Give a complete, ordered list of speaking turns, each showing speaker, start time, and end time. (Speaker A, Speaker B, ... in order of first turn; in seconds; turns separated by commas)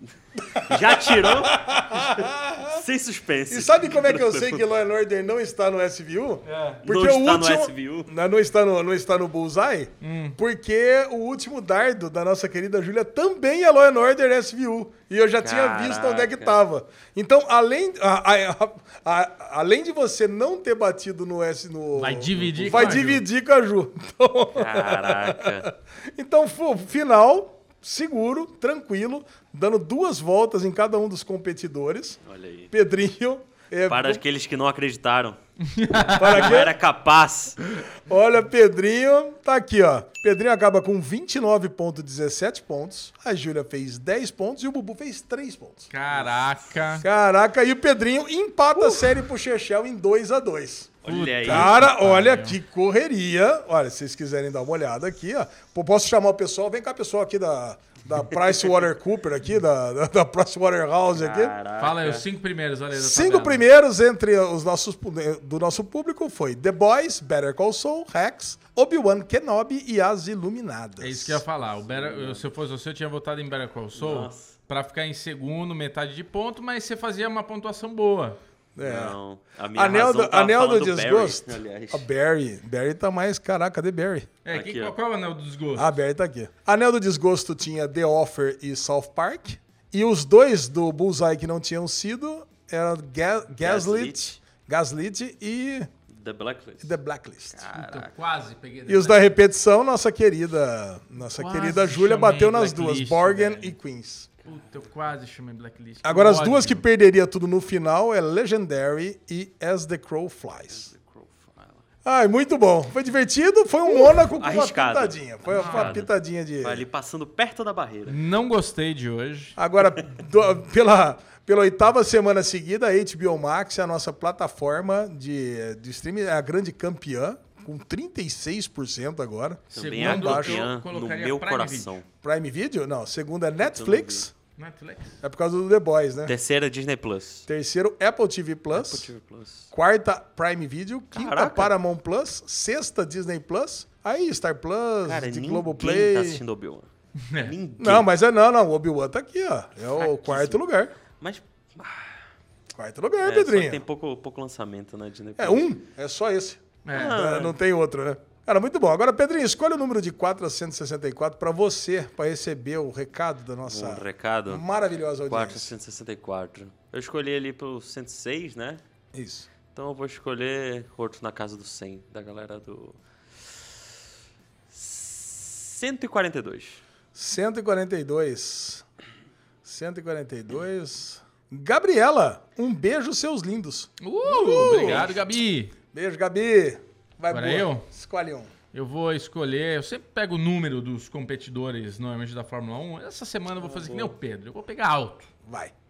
Speaker A: 0.3-2.8, Speaker B: 0.7-4.7, Speaker A: 3.5-32.2, Speaker C: 6.5-6.8, Speaker B: 6.8-8.1, Speaker C: 10.0-10.4, Speaker B: 15.4-16.6, Speaker C: 21.9-23.2, Speaker B: 22.4-23.1, Speaker B: 24.6-25.7, Speaker B: 32.2-32.7, Speaker A: 32.7-34.2, Speaker B: 33.9-35.4, Speaker C: 35.7-36.5, Speaker B: 36.1-37.6, Speaker A: 36.2-36.8, Speaker A: 38.1-45.9, Speaker C: 45.9-47.0, Speaker B: 46.1-47.0, Speaker A: 47.0-61.5, Speaker B: 48.8-49.0, Speaker B: 51.0-51.7, Speaker C: 51.0-52.6, Speaker B: 61.1-62.2, Speaker C: 61.8-63.6, Speaker A: 62.9-71.4, Speaker C: 71.0-78.4, Speaker B: 71.6-72.5, Speaker B: 73.9-74.5, Speaker A: 78.8-79.2, Speaker B: 78.8-82.1, Speaker A: 79.8-84.3, Speaker C: 84.5-85.9, Speaker B: 84.5-85.0, Speaker A: 85.8-95.9, Speaker B: 93.6-94.4, Speaker B: 96.1-97.0, Speaker A: 96.8-97.7, Speaker B: 97.5-98.1, Speaker C: 97.7-99.2, Speaker A: 98.9-104.3, Speaker C: 101.4-103.8, Speaker C: 104.5-106.8, Speaker A: 106.0-110.9, Speaker B: 110.7-111.8, Speaker A: 112.0-116.8, Speaker B: 113.9-118.2, Speaker C: 115.5-116.0, Speaker C: 118.1-119.5, Speaker A: 119.6-130.7, Speaker B: 129.7-132.1, Speaker C: 129.7-132.0, Speaker A: 132.2-134.3, Speaker B: 133.6-134.3, Speaker C: 134.6-135.2, Speaker A: 135.2-136.3, Speaker B: 136.3-137.4, Speaker A: 137.5-139.1, Speaker B: 138.7-139.7, Speaker A: 139.7-146.4, Speaker B: 141.1-141.8, Speaker B: 145.0-148.1, Speaker C: 147.3-147.5, Speaker A: 147.8-150.9, Speaker B: 149.8-152.2, Speaker A: 152.7-153.8, Speaker B: 153.2-155.7, Speaker A: 155.4-165.7, Speaker C: 156.8-157.2, Speaker B: 156.9-157.6, Speaker B: 163.6-164.7, Speaker B: 165.3-168.8, Speaker A: 169.1-169.5, Speaker B: 169.7-173.5, Speaker B: 174.7-176.8, Speaker A: 177.1-178.8, Speaker A: 179.7-185.2, Speaker C: 184.0-185.7, Speaker B: 184.6-185.2, Speaker A: 185.9-188.5, Speaker C: 187.3-187.9, Speaker C: 188.7-195.3, Speaker B: 193.6-194.2, Speaker A: 195.5-195.7